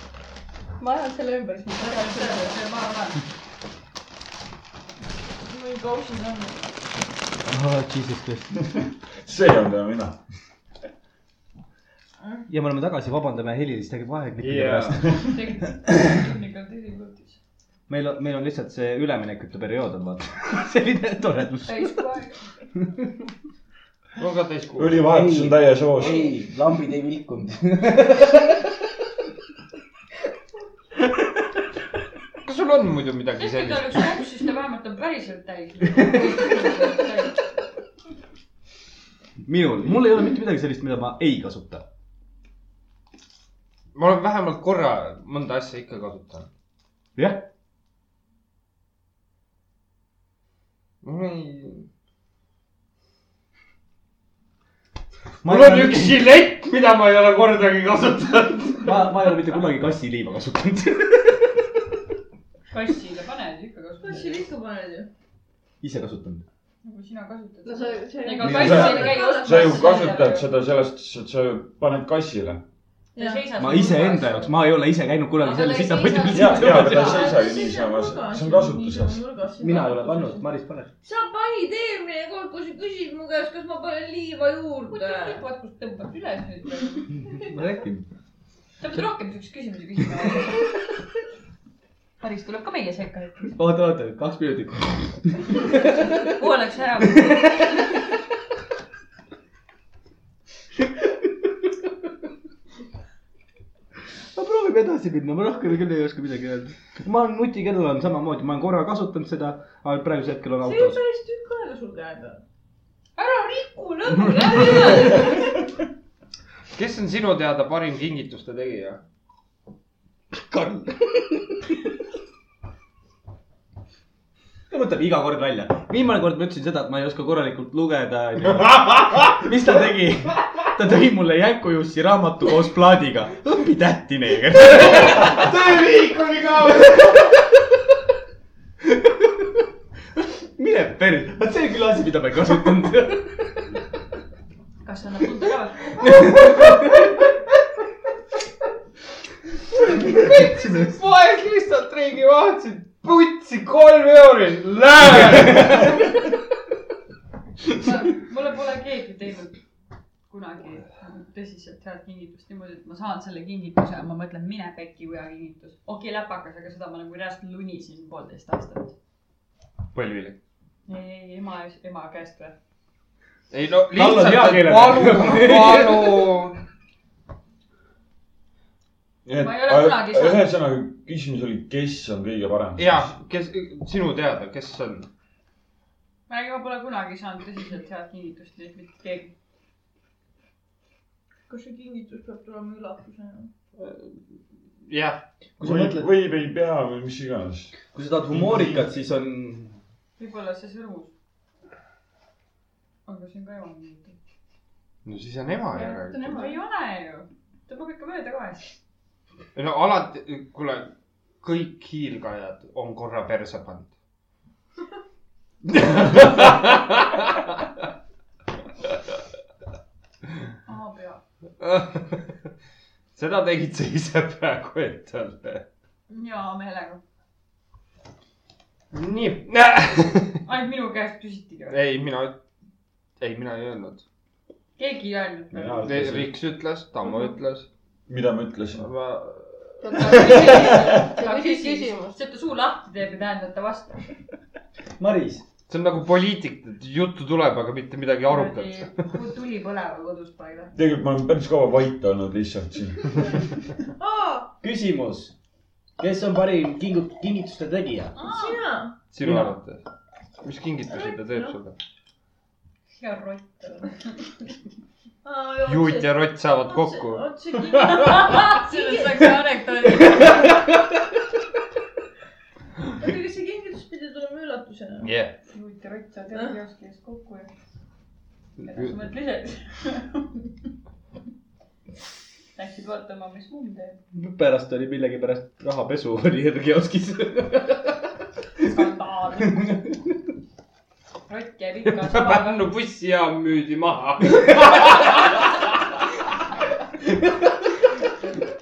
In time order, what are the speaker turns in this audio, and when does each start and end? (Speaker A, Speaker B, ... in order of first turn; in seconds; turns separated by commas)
Speaker A: 0.8-2.5, Speaker B: 1.7-3.2, Speaker C: 5.4-6.7, Speaker D: 7.5-8.7, Speaker E: 8.8-10.2, Speaker D: 12.5-16.0, Speaker F: 14.4-15.2, Speaker B: 15.1-17.4, Speaker D: 17.9-22.0, Speaker B: 21.6-22.4, Speaker F: 24.2-25.0, Speaker E: 24.8-26.2, Speaker D: 25.0-28.6, Speaker B: 26.0-26.3, Speaker F: 32.4-34.0, Speaker B: 33.4-37.4, Speaker D: 39.4-41.8, Speaker F: 43.9-46.5, Speaker D: 47.1-47.5, Speaker F: 51.0-51.9, Speaker D: 55.4-56.2, Speaker F: 55.4-59.0, Speaker D: 58.8-61.6, Speaker B: 62.7-64.4, Speaker C: 64.0-65.1, Speaker D: 65.8-66.4, Speaker B: 66.8-70.5, Speaker A: 67.7-68.7, Speaker C: 67.8-70.2, Speaker D: 68.4-69.0, Speaker E: 68.6-72.6, Speaker C: 73.2-73.5, Speaker B: 73.2-74.6, Speaker D: 73.5-77.3, Speaker B: 75.4-77.1, Speaker E: 76.3-79.2, Speaker C: 76.5-80.5, Speaker D: 79.6-80.9, Speaker C: 81.0-85.4, Speaker B: 84.9-87.2, Speaker D: 87.4-88.0, Speaker B: 88.8-90.6, Speaker B: 92.2-93.5, Speaker D: 93.5-96.4, Speaker B: 96.3-98.0, Speaker D: 97.1-97.9, Speaker D: 104.3-111.0, Speaker C: 110.6-112.4, Speaker B: 113.2-115.5, Speaker C: 114.1-115.3, Speaker F: 116.7-119.0, Speaker D: 120.4-121.2, Speaker D: 124.7-135.7, Speaker F: 134.8-137.1, Speaker D: 136.4-137.3, Speaker D: 138.8-139.6, Speaker D: 140.2-143.7, Speaker B: 144.8-146.0, Speaker D: 146.0-147.2, Speaker F: 150.2-156.0, Speaker D: 155.5-155.8, Speaker B: 157.8-159.6, Speaker B: 160.3-168.9, Speaker F: 169.9-170.4, Speaker B: 170.8-172.5, Speaker F: 173.5-176.6, Speaker D: 173.9-176.3, Speaker E: 179.2-183.1, Speaker B: 179.3-180.5, Speaker F: 182.8-185.1, Speaker B: 186.3-189.3, Speaker C: 191.5-193.5, Speaker F: 193.8-194.2, Speaker F: 194.8-195.2, Speaker D: 195.6-196.1, Speaker E: 195.6-197.8, Speaker D: 197.9-199.8, Speaker E: 198.3-198.8, Speaker B: 200.2-201.1, Speaker B: 203.1-204.2, Speaker F: 205.0-206.2, Speaker A: 205.7-206.6, Speaker B: 206.2-208.7, Speaker F: 209.5-210.9, Speaker F: 211.4-213.9, Speaker F: 215.7-217.5, Speaker B: 220.7-221.2, Speaker F: 221.6-222.2, Speaker F: 223.1-225.6, Speaker B: 226.1-227.0, Speaker F: 228.9-230.4, Speaker B: 230.4-231.8, Speaker F: 231.7-232.4, Speaker F: 233.2-234.0, Speaker B: 234.8-235.9, Speaker D: 235.5-236.3, Speaker F: 235.8-237.7, Speaker E: 238.1-238.9, Speaker F: 238.8-240.2, Speaker A: 239.8-242.2, Speaker B: 239.9-244.0, Speaker E: 240.3-240.9, Speaker D: 245.0-245.4, Speaker F: 245.7-249.1, Speaker B: 248.3-250.7, Speaker E: 250.7-253.2, Speaker C: 254.0-254.5, Speaker D: 254.6-255.3, Speaker D: 256.0-258.2, Speaker B: 258.1-258.6, Speaker C: 258.2-259.0, Speaker F: 259.1-259.8, Speaker D: 259.2-259.5, Speaker F: 260.4-261.8, Speaker C: 260.9-261.6, Speaker B: 262.9-264.3, Speaker C: 265.2-269.3, Speaker F: 265.6-267.3, Speaker B: 267.8-270.4, Speaker C: 273.0-275.1, Speaker F: 275.0-275.3, Speaker B: 275.5-277.5, Speaker B: 278.6-280.4, Speaker F: 278.6-278.9, Speaker B: 282.5-284.0, Speaker D: 284.1-288.8, Speaker B: 288.6-289.8, Speaker D: 289.4-290.1, Speaker B: 291.3-292.7, Speaker F: 292.0-295.6, Speaker D: 294.3-294.8, Speaker D: 297.1-297.6